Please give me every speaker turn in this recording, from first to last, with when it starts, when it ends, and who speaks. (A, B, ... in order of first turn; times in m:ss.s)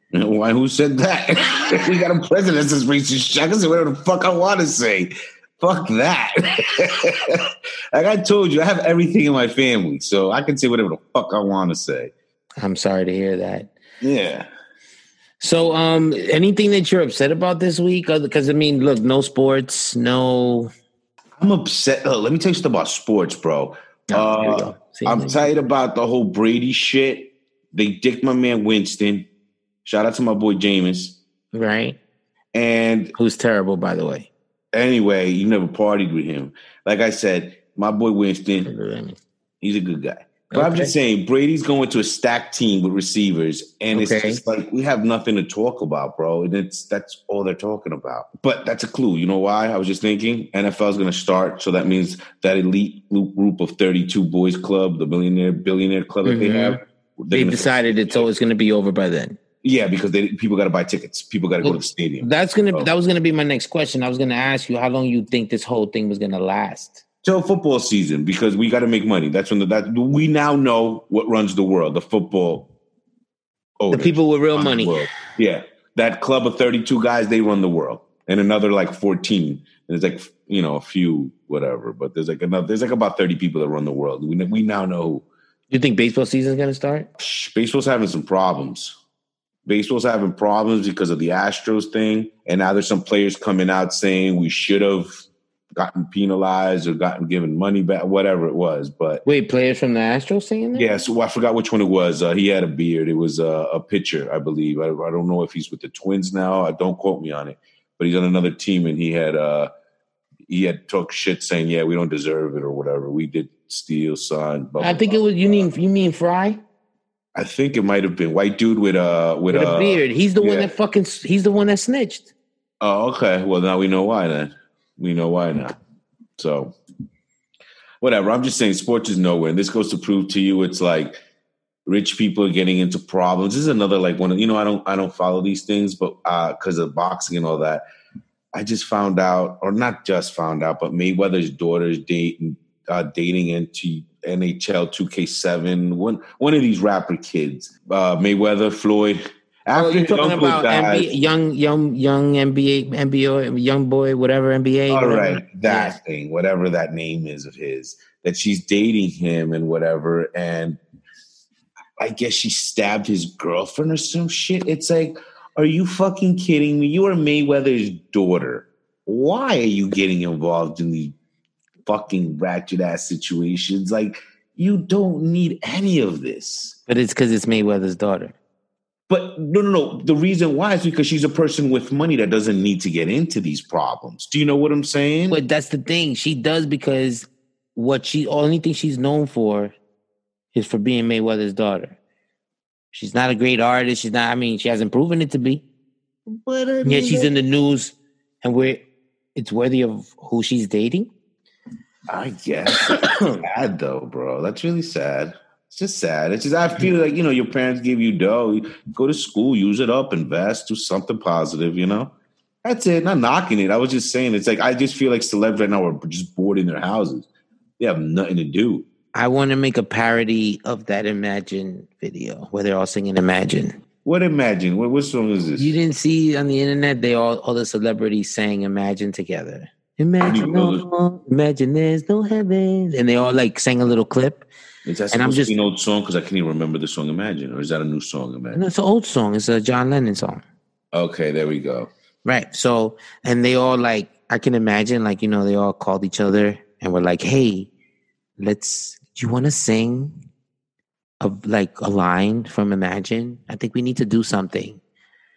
0:00.1-0:12.1 A
0:12.6-0:13.7 B
0:14.0-0:14.5 A
0:15.4-0:20.7 B
0:21.4-0:29.3 A
0:24.1-0:25.5 B
0:29.8-0:31.2 A
0:31.5-0:32.0 B
0:32.5-0:33.2 A
0:33.2-0:34.3 B
0:34.7-0:38.7 A
0:38.6-0:39.2 B
0:39.6-0:58.3 A
0:40.5-0:41.0 B
0:43.9-0:44.4 B
0:56.2-0:56.8 B
0:57.3-0:59.4 B
0:59.6-1:02.9 A
1:01.6-1:07.0 B
1:07.2-1:12.7 A
1:13.8-1:25.3 A
1:13.9-1:15.1 B
1:25.7-1:27.1 B
1:27.2-1:29.0 A
1:29.7-1:35.2 A
1:35.8-1:39.2 A
1:39.2-1:40.9 B
1:40.8-1:49.7 A
1:50.5-1:55.3 A
1:54.8-1:56.6 B
1:57.4-2:00.7 A
1:59.5-2:02.3 B
2:02.8-2:05.8 A
2:06.4-2:06.8 A
2:08.0-2:11.2 A
2:11.9-2:17.8 A
2:18.5-2:31.1 A
2:29.7-2:36.0 B
2:34.9-2:40.8 A
2:42.0-2:51.2 A
2:51.8-2:56.8 A
2:56.9-2:58.4 B
2:59.1-3:05.4 A
3:05.3-3:09.7 B
3:10.5-3:12.0 B
3:12.9-3:15.6 B
3:16.3-3:17.3 A
3:16.8-3:18.8 B
3:19.4-3:21.1 B
3:22.1-3:32.1 A
3:22.7-3:23.4 B
3:32.6-3:37.3 A
3:37.8-3:38.9 A
3:39.1-3:43.8 B
3:44.0-3:45.8 A
3:45.6-3:54.5 B
3:50.2-3:50.8 A
3:54.9-3:58.6 A
3:55.1-3:55.6 B
3:58.5-4:00.4 B
4:00.9-4:01.9 A
4:02.2-4:07.7 B
4:08.4-4:10.2 B
4:11.2-4:14.8 B